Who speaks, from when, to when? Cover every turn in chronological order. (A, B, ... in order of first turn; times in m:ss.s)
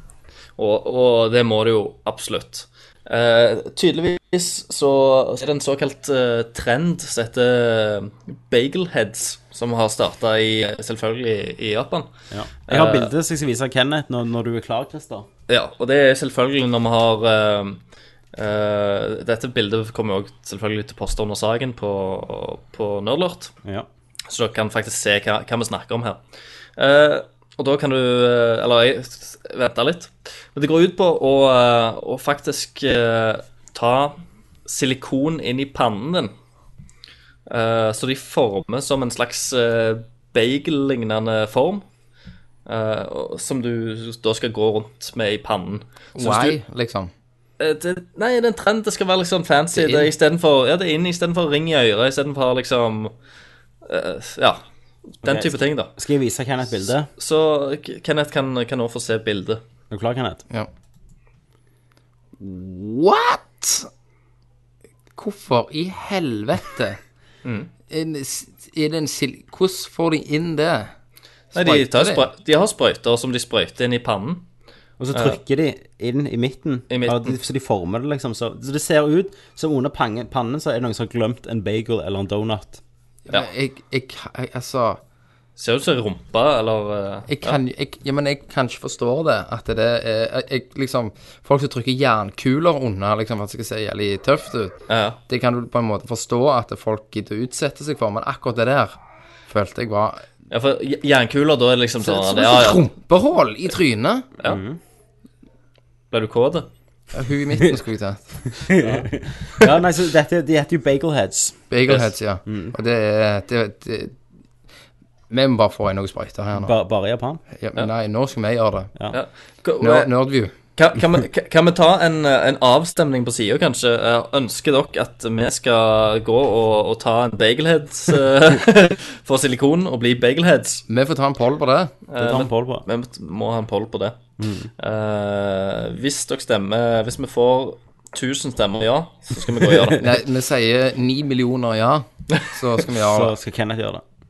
0:00.6-0:12.1 A
0:12.3-0:15.3 B
0:12.7-0:13.1 A
0:15.5-0:17.8 A
0:18.3-0:23.5 A
0:24.3-0:26.2 A
0:26.8-0:36.3 A
0:37.5-0:41.8 A
0:42.7-0:46.6 A
0:46.2-0:47.1 C
0:47.6-0:53.1 A
0:49.7-0:50.1 C
0:53.8-0:54.6 A
0:55.2-0:55.9 A
0:55.2-0:57.1 B
0:57.2-0:59.6 A
0:59.9-1:00.4 B
1:02.4-1:03.9 C
1:05.2-1:07.0 C
1:07.4-1:07.7 A
1:07.9-1:10.9 C
1:11.5-1:14.4 A
1:11.5-1:12.3 C
1:15.0-1:22.8 B
1:15.1-1:15.4 A
1:16.9-1:17.4 A
1:23.3-1:25.0 C
1:25.6-1:27.6 A
1:27.3-1:34.8 C
1:34.9-1:35.2 A
1:35.3-1:40.2 C
1:40.5-1:42.9 A
1:42.0-1:44.3 C
1:44.4-1:44.8 B
1:46.1-1:46.7 A
1:47.1-1:48.7 C
1:48.7-1:51.6 B
1:51.7-1:54.2 C
1:52.5-1:52.8 B
1:55.3-1:56.7 C
1:56.6-1:57.4 B
1:57.6-1:58.9 C
1:59.1-2:10.8 A
1:59.8-2:00.5 C
2:10.9-2:11.9 C
2:12.1-2:14.2 A
2:12.2-2:12.8 B
2:14.4-2:14.7 B
2:14.8-2:20.1 A
2:20.0-2:23.3 C
2:22.9-2:24.0 B